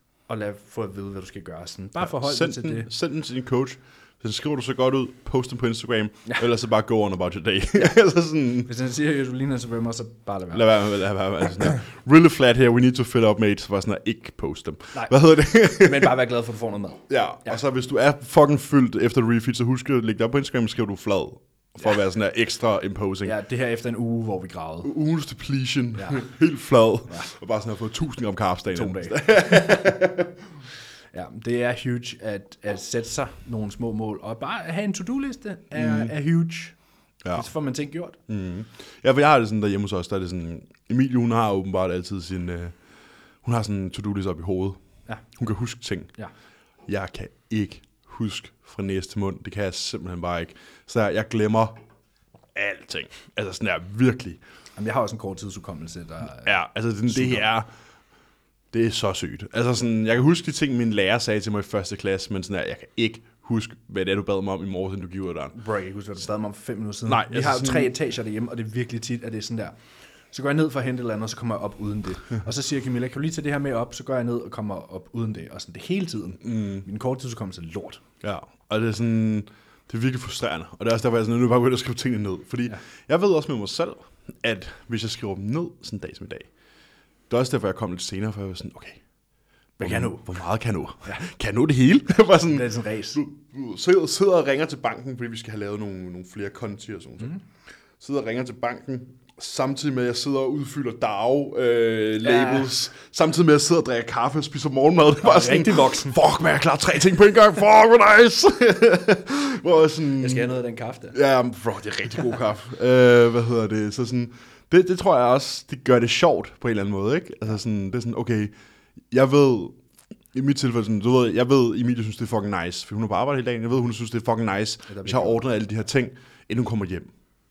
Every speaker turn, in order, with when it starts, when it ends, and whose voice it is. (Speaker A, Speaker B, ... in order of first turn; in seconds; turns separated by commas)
Speaker A: 0.3-2.9, Speaker B: 2.0-8.7, Speaker A: 8.7-10.7, Speaker B: 10.5-16.2, Speaker A: 14.9-17.6, Speaker B: 17.1-23.3, Speaker A: 23.2-24.9, Speaker B: 24.8-30.4, Speaker A: 26.0-26.2, Speaker A: 28.7-30.0, Speaker A: 31.1-36.8, Speaker B: 35.8-36.1, Speaker B: 37.2-37.5, Speaker A: 37.3-38.2, Speaker B: 38.3-42.8, Speaker B: 43.4-44.8, Speaker B: 45.4-46.1, Speaker B: 46.9-51.8, Speaker B: 52.5-54.4, Speaker A: 54.8-57.5, Speaker B: 56.4-57.7, Speaker B: 58.7-65.6, Speaker A: 65.5-69.8, Speaker B: 67.1-67.9, Speaker A: 70.3-78.0, Speaker B: 76.4-76.9, Speaker B: 78.2-86.5, Speaker B: 87.3-89.0, Speaker A: 89.8-90.4, Speaker B: 89.8-97.4, Speaker A: 92.4-93.2, Speaker B: 98.0-110.5, Speaker A: 102.2-102.8, Speaker A: 105.2-106.2, Speaker A: 110.2-111.2, Speaker B: 111.1-118.5, Speaker B: 119.1-119.8, Speaker B: 120.3-127.1, Speaker A: 124.9-125.5